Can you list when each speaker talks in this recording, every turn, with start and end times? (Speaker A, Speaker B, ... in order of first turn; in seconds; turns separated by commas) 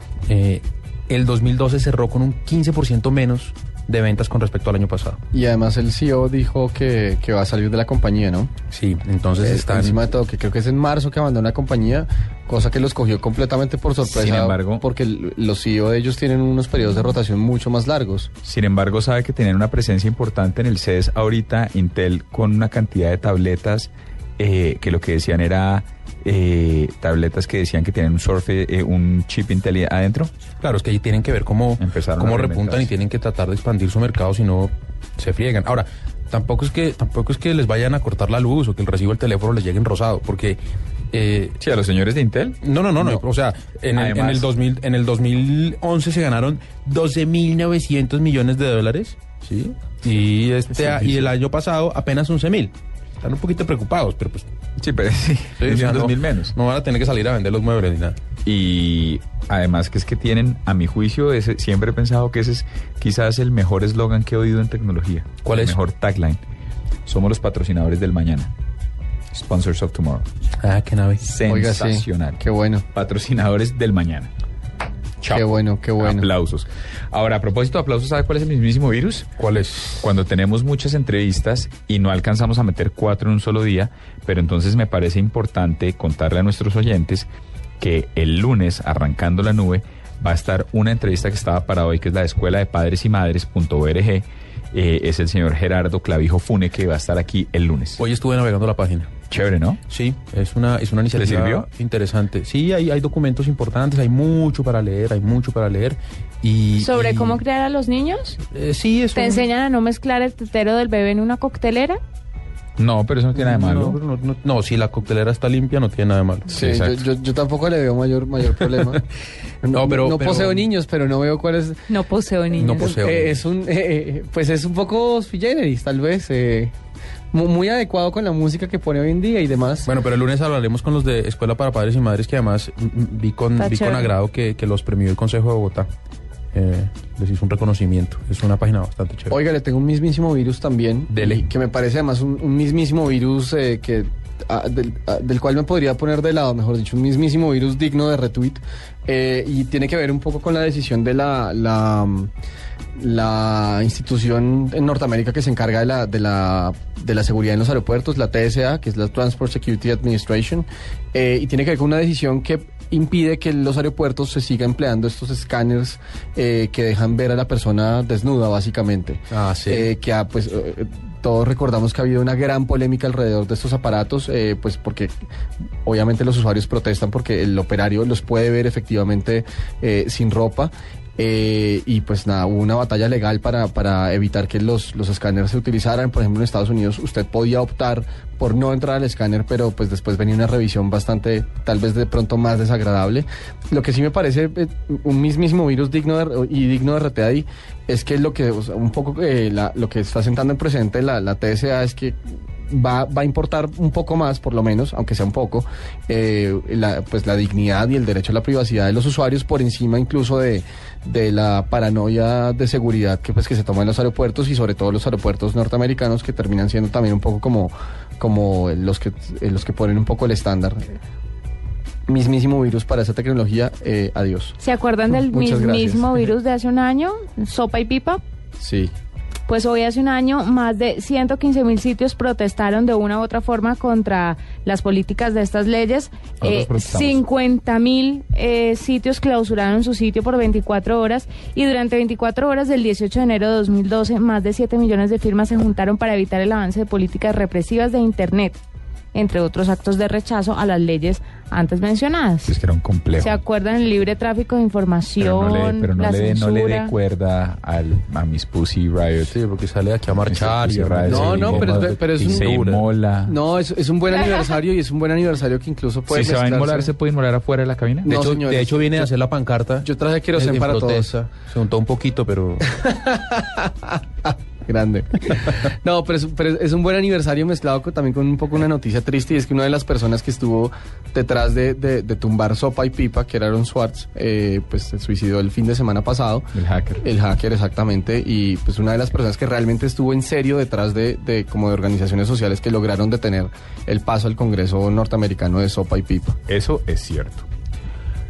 Speaker A: 0.3-5.2, Speaker B: 5.3-8.5, Speaker A: 8.7-10.0, Speaker B: 9.4-18.3, Speaker C: 14.0-14.8, Speaker C: 18.4-30.3, Speaker A: 30.6-40.6, Speaker C: 31.8-32.9, Speaker A: 41.1-41.6, Speaker C: 41.6-43.2, Speaker A: 42.6-54.5, Speaker C: 43.9-44.5, Speaker C: 54.8-56.5, Speaker A: 55.6-58.2, Speaker C: 58.4-66.4, Speaker A: 65.4-65.8, Speaker C: 67.0-68.5, Speaker C: 69.3-70.3, Speaker A: 70.6-71.2, Speaker C: 71.2-72.4, Speaker B: 71.5-72.8, Speaker C: 72.9-74.3, Speaker C: 75.2-79.3, Speaker B: 75.3-76.3, Speaker A: 79.4-80.0, Speaker C: 80.0-87.3, Speaker C: 87.8-98.0, Speaker A: 98.0-99.1, Speaker C: 99.3-99.8, Speaker A: 99.9-107.4, Speaker C: 101.1-101.7, Speaker D: 106.8-108.4, Speaker A: 108.5-109.4, Speaker D: 109.1-112.0, Speaker C: 112.8-114.0, Speaker A: 113.3-116.5, Speaker B: 116.5-119.0, Speaker C: 116.5-117.0, Speaker B: 119.6-121.8, Speaker A: 119.7-120.7, Speaker D: 121.9-122.9, Speaker A: 122.5-123.4, Speaker B: 122.7-126.7, Speaker B: 127.3-129.9, Speaker A: 129.8-135.9, Speaker D: 133.6-134.1, Speaker A: 136.5-139.4, Speaker B: 139.3-152.3, Speaker A: 141.1-141.5, Speaker B: 153.0-175.1, Speaker A: 169.3-169.9, Speaker B: 175.8-220.9, Speaker B: 222.1-224.6, Speaker D: 224.6-228.2, Speaker B: 225.1-226.2, Speaker B: 228.6-228.9, Speaker D: 229.5-248.6, Speaker C: 236.4-237.2, Speaker D: 249.1-252.5, Speaker C: 252.4-253.4, Speaker D: 253.2-256.9, Speaker C: 255.2-259.4, Speaker A: 259.2-262.9, Speaker C: 260.3-263.4, Speaker B: 261.0-262.5, Speaker B: 263.2-266.9, Speaker C: 266.1-268.1, Speaker B: 268.0-269.1, Speaker A: 268.1-272.7, Speaker B: 269.8-271.1, Speaker B: 272.7-286.5, Speaker C: 286.5-287.0, Speaker B: 287.0-296.4, Speaker C: 296.5-297.5